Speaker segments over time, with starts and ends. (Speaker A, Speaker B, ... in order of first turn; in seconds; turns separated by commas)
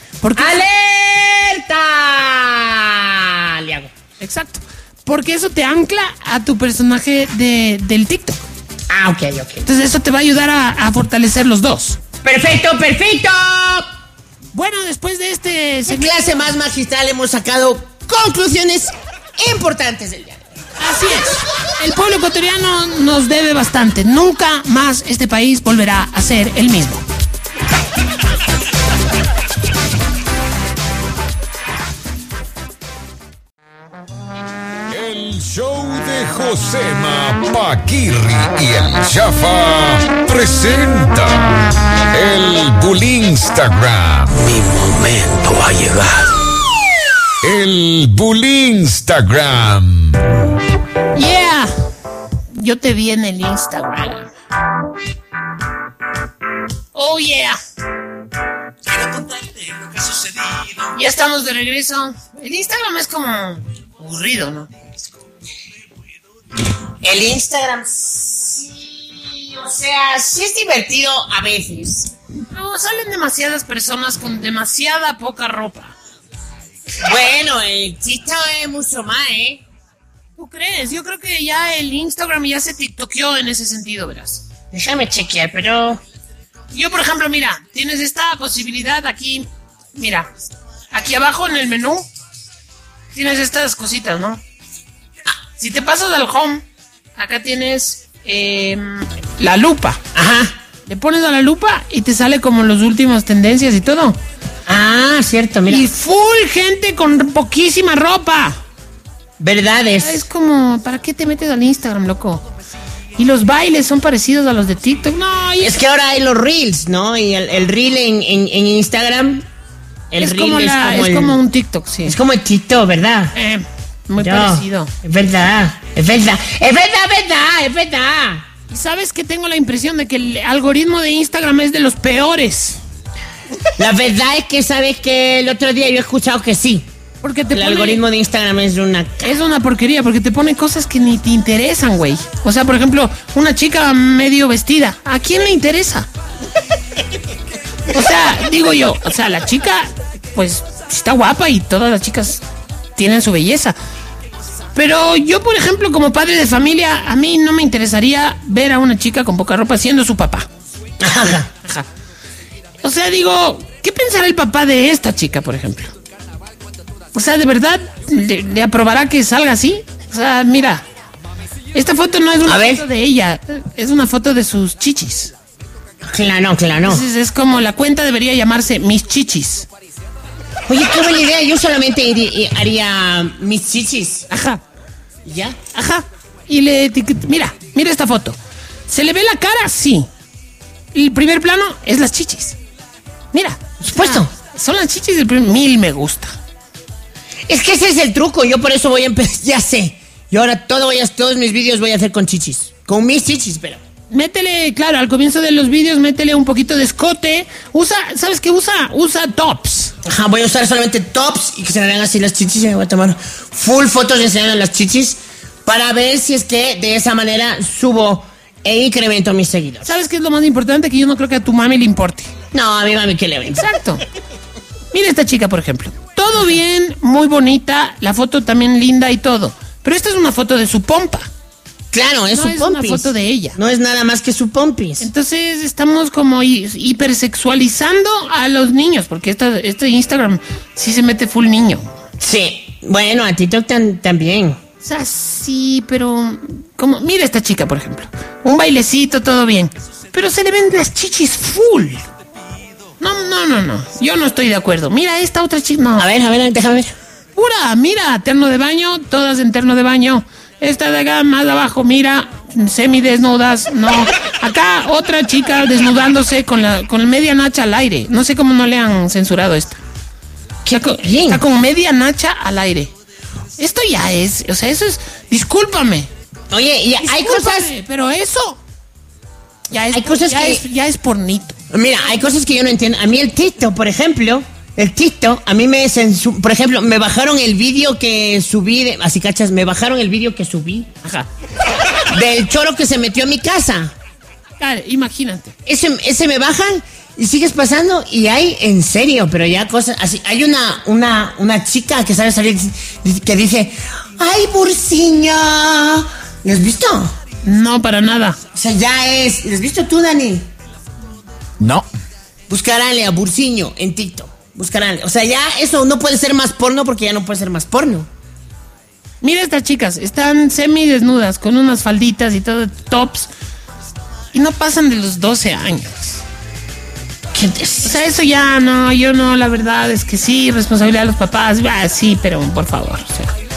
Speaker A: 0.2-0.7, Speaker B: 0.4-3.9, Speaker A: 4.2-8.4, Speaker B: 8.9-9.7, Speaker A: 9.6-12.0, Speaker B: 12.2-13.9, Speaker A: 14.5-16.2, Speaker B: 15.9-20.5, Speaker A: 20.8-27.1, Speaker C: 34.9-44.4, Speaker D: 44.3-46.4, Speaker C: 47.4-50.2, Speaker A: 51.1-51.7, Speaker A: 52.5-54.3, Speaker A: 56.9-57.6, Speaker B: 58.9-60.7, Speaker A: 60.9-64.7, Speaker B: 67.0-72.1, Speaker A: 72.5-75.9, Speaker B: 77.0-79.6, Speaker A: 80.4-84.5, Speaker B: 84.7-86.0, Speaker A: 86.7-90.3, Speaker A: 90.9-92.1, Speaker A: 93.1-94.4, Speaker A: 95.6-96.6, Speaker A: 97.2-100.0, Speaker B: 100.1-100.6, Speaker A: 100.8-104.2, Speaker B: 104.7-105.8, Speaker A: 105.7-108.6, Speaker B: 109.4-110.2, Speaker A: 110.0-112.4, Speaker A: 113.2-115.7, Speaker B: 115.6-119.5, Speaker B: 120.1-121.4, Speaker A: 120.2-122.2, Speaker B: 122.0-123.3, Speaker A: 123.3-124.9, Speaker B: 124.2-128.4, Speaker A: 128.7-132.8, Speaker B: 133.8-136.9, Speaker A: 137.2-138.0, Speaker B: 137.5-139.4, Speaker A: 139.2-146.1, Speaker A: 147.9-152.4, Speaker A: 152.9-153.8, Speaker A: 154.7-160.5, Speaker B: 161.0-161.5, Speaker A: 162.8-165.9, Speaker A: 167.1-170.8, Speaker A: 171.7-175.3, Speaker B: 172.4-172.8, Speaker B: 176.0-177.0, Speaker A: 176.8-179.7, Speaker B: 180.7-184.3, Speaker A: 184.3-184.6, Speaker B: 185.2-185.6, Speaker A: 185.7-190.1, Speaker A: 190.9-192.6, Speaker A: 193.3-196.3, Speaker B: 193.8-194.3, Speaker B: 197.5-203.8, Speaker A: 204.1-209.9, Speaker B: 210.0-219.9, Speaker A: 219.8-222.3, Speaker B: 222.5-223.6, Speaker A: 223.5-224.0, Speaker A: 224.9-231.3, Speaker B: 231.9-235.1, Speaker A: 232.3-233.6, Speaker A: 235.0-242.0, Speaker B: 242.2-244.6, Speaker A: 244.8-252.0, Speaker A: 253.0-256.1, Speaker B: 256.0-256.9, Speaker A: 257.3-269.8, Speaker B: 270.6-271.4, Speaker A: 270.7-272.9, Speaker A: 273.6-276.1, Speaker B: 276.5-277.7, Speaker A: 277.0-278.6, Speaker A: 279.7-281.6, Speaker B: 279.9-280.6, Speaker B: 281.7-290.9, Speaker B: 292.1-293.9, Speaker A: 294.6-295.5, Speaker B: 295.6-307.1, Speaker A: 307.4-308.4, Speaker B: 308.5-310.5, Speaker B: 312.5-318.1, Speaker A: 319.2-323.3, Speaker A: 324.3-326.2, Speaker B: 327.3-327.9, Speaker A: 327.8-333.3